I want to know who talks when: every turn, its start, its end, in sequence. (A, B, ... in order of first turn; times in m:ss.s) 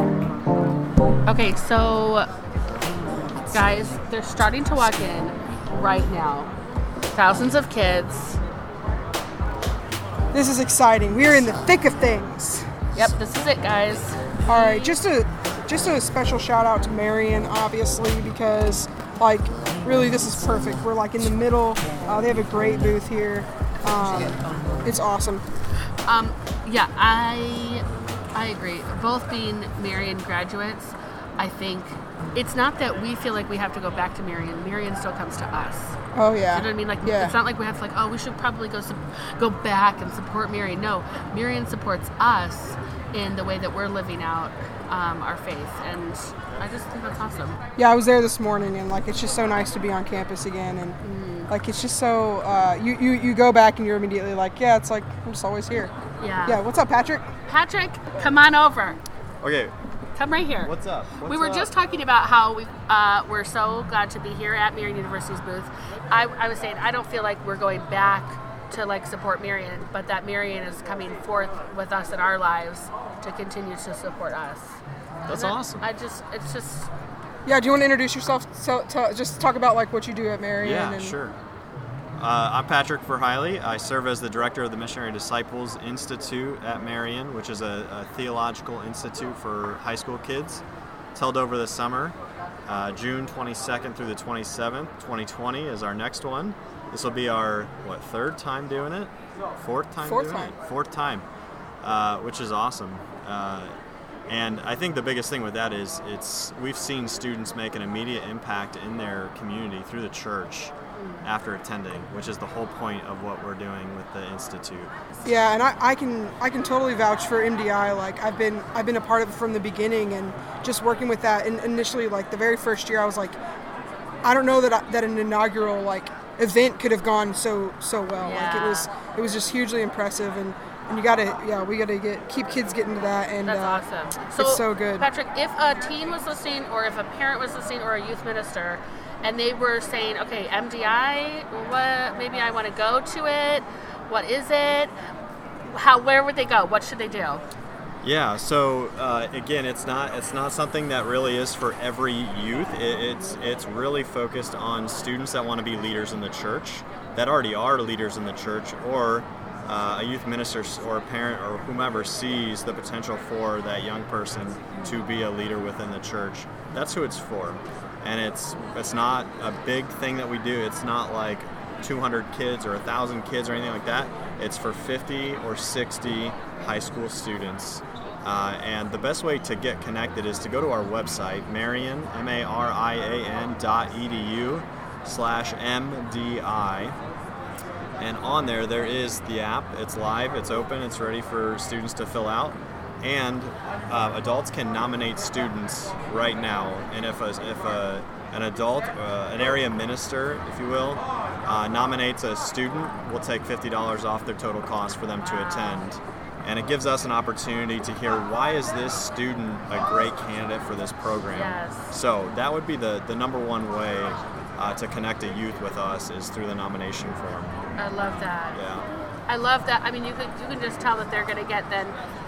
0:01.2-0:02.3 A
0:03.5-0:06.5 A
0:07.1-0:08.4 A
0:10.3-0:12.7 B
0:12.9-0:15.0 A
0:14.5-0:25.4 B
0:26.0-0:36.0 A
0:36.1-0:37.3 B
0:36.5-0:47.6 A
0:47.8-0:51.0 B
0:51.0-0:51.5 A
0:51.5-0:55.9 B
0:56.2-0:56.6 A
0:56.4-0:57.3 B
0:57.5-0:59.0 A
0:59.4-0:59.7 C
1:00.2-1:00.7 A
1:00.6-1:01.7 C
1:01.2-1:16.9 A
1:15.3-1:15.8 C
1:17.4-1:21.1 B
1:20.6-1:21.3 C
1:22.2-1:30.6 C
1:31.1-1:32.2 C
1:32.7-1:41.2 C
1:40.0-1:40.5 B
1:41.8-1:43.7 C
1:44.3-1:50.7 C
1:51.0-1:51.2 A
1:51.2-1:54.9 C
1:55.2-2:03.4 B
2:04.2-2:13.8 B
2:08.2-2:08.9 A
2:13.4-2:24.9 A
2:14.4-2:15.1 B
2:25.7-2:27.4 A
2:28.0-3:06.9 C
3:08.0-3:37.6 C
3:25.2-3:25.9 A
3:31.3-3:32.0 A
3:37.8-3:38.6 A
3:38.5-3:38.8 C
3:39.3-3:42.0 A